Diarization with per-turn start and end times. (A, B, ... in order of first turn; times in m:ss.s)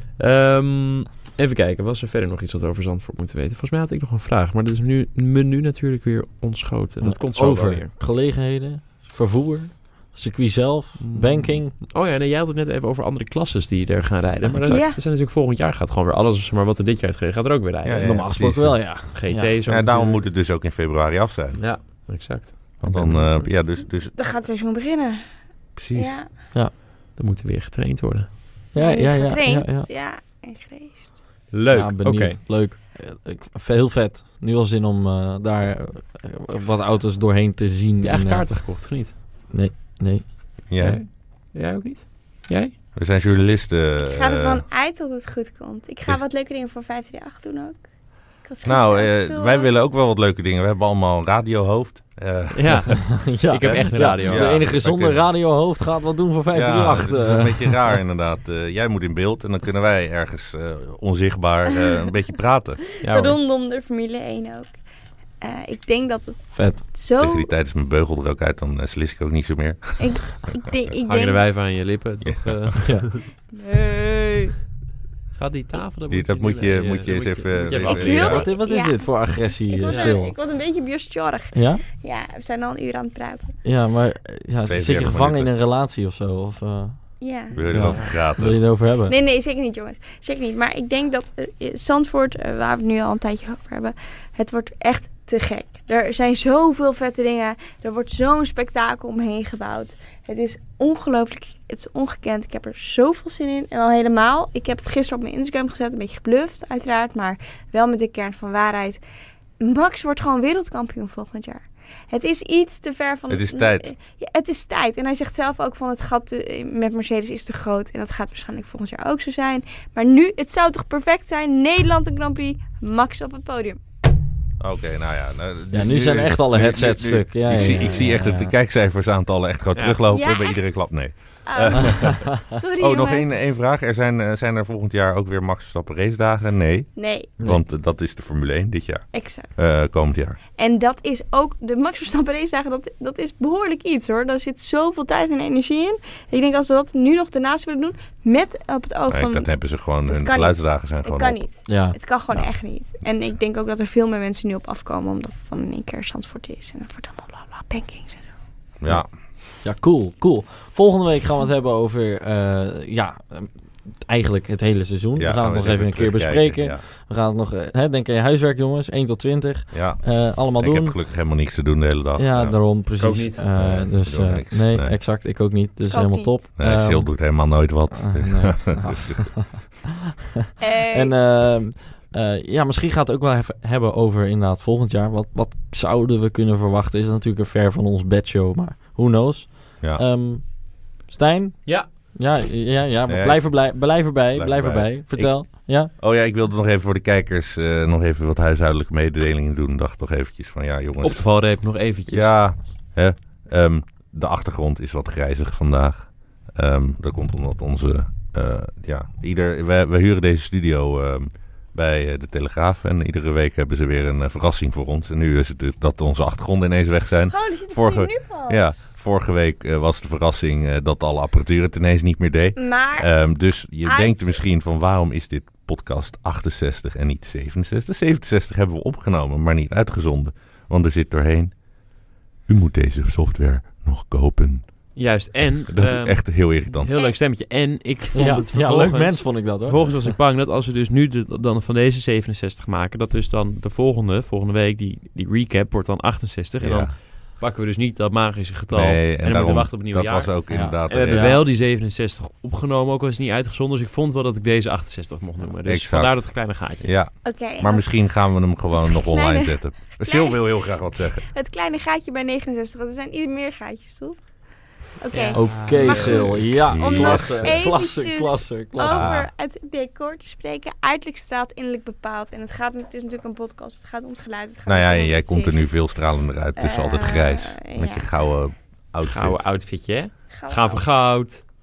0:00.2-0:07.9 A
0:07.0-0:11.8 B
0:11.0-0:18.2 A
0:14.4-0:14.8 B
0:14.7-0:15.0 C
0:17.8-0:18.9 D
0:18.0-0:19.5 B
0:19.1-0:20.2 A
0:19.7-0:21.6 D
0:21.6-0:23.5 A
0:22.8-0:24.1 D
0:24.1-0:25.2 C
0:25.8-0:26.2 D
0:25.9-0:26.3 C
0:27.1-0:28.3 A
0:28.7-0:29.9 B
0:28.8-0:31.1 C
0:31.5-0:32.4 A
0:31.7-0:38.4 B
0:38.0-0:39.1 A
0:39.5-0:40.3 B
0:40.7-0:41.0 D
0:40.8-0:42.7 A
0:42.9-0:44.6 D
0:44.0-0:47.8 C
0:48.4-0:49.7 C
0:48.6-0:55.3 D
0:52.5-0:54.6 A
0:53.1-0:57.9 B
0:56.5-1:02.8 D
1:03.0-1:04.8 C
1:03.0-1:03.4 A
1:05.4-1:07.5 C
1:06.5-1:06.8 B
1:07.2-1:10.4 D
1:10.0-1:11.4 C
1:11.0-1:13.3 A
1:12.2-1:12.6 D
1:12.8-1:13.1 B
1:13.5-1:14.5 C
1:15.3-1:18.5 A
1:16.1-1:18.5 D
1:17.8-1:23.6 C
1:18.1-1:20.3 B
1:19.9-1:20.1 A
1:21.5-1:21.8 B
1:23.6-1:29.1 B
1:24.7-1:25.5 D
1:27.2-1:27.6 C
1:27.5-1:28.7 D
1:29.0-1:49.0 C
1:49.6-2:03.8 C
1:53.3-1:53.9 D
2:04.6-2:20.4 D
2:05.7-2:08.5 B
2:09.7-2:10.0 A
2:10.1-2:10.7 C
2:11.4-2:13.4 C
2:17.0-2:17.3 C
2:19.1-2:19.5 C
2:20.5-2:38.3 C
2:29.1-2:31.4 D
2:31.7-2:32.5 B
2:38.8-2:39.1 D
2:39.6-2:51.0 B
2:45.2-2:46.8 D
2:49.7-2:52.6 D
2:52.2-2:57.2 B
2:53.0-2:53.4 A
2:53.5-2:55.0 D
2:55.9-2:56.4 C
2:56.6-2:59.4 D
2:57.9-2:59.6 B
3:00.6-3:01.1 C
3:00.9-3:15.9 B
3:13.1-3:13.7 D
3:14.3-3:21.3 D
3:21.0-3:22.5 A
3:22.1-3:51.6 D
3:37.3-3:38.8 C
3:42.6-3:43.1 C
3:43.8-3:44.4 C
3:52.4-3:54.7 D
3:54.9-4:10.4 A
3:55.7-3:56.9 D
3:58.1-4:00.1 B
4:06.6-4:06.9 D
4:08.7-4:11.4 D
4:10.5-4:11.4 B
4:10.9-4:16.9 A
4:15.6-4:16.2 D
4:16.8-4:21.3 D
4:17.2-4:17.9 C
4:18.7-4:20.4 C
4:21.2-4:24.2 C
4:25.0-4:35.7 C
4:25.1-4:26.4 A
4:25.3-4:29.1 B
4:26.1-4:27.6 D
4:28.8-4:29.3 D
4:34.6-4:39.4 D
4:36.6-4:38.1 C
4:39.0-4:41.4 A
4:40.3-4:40.8 C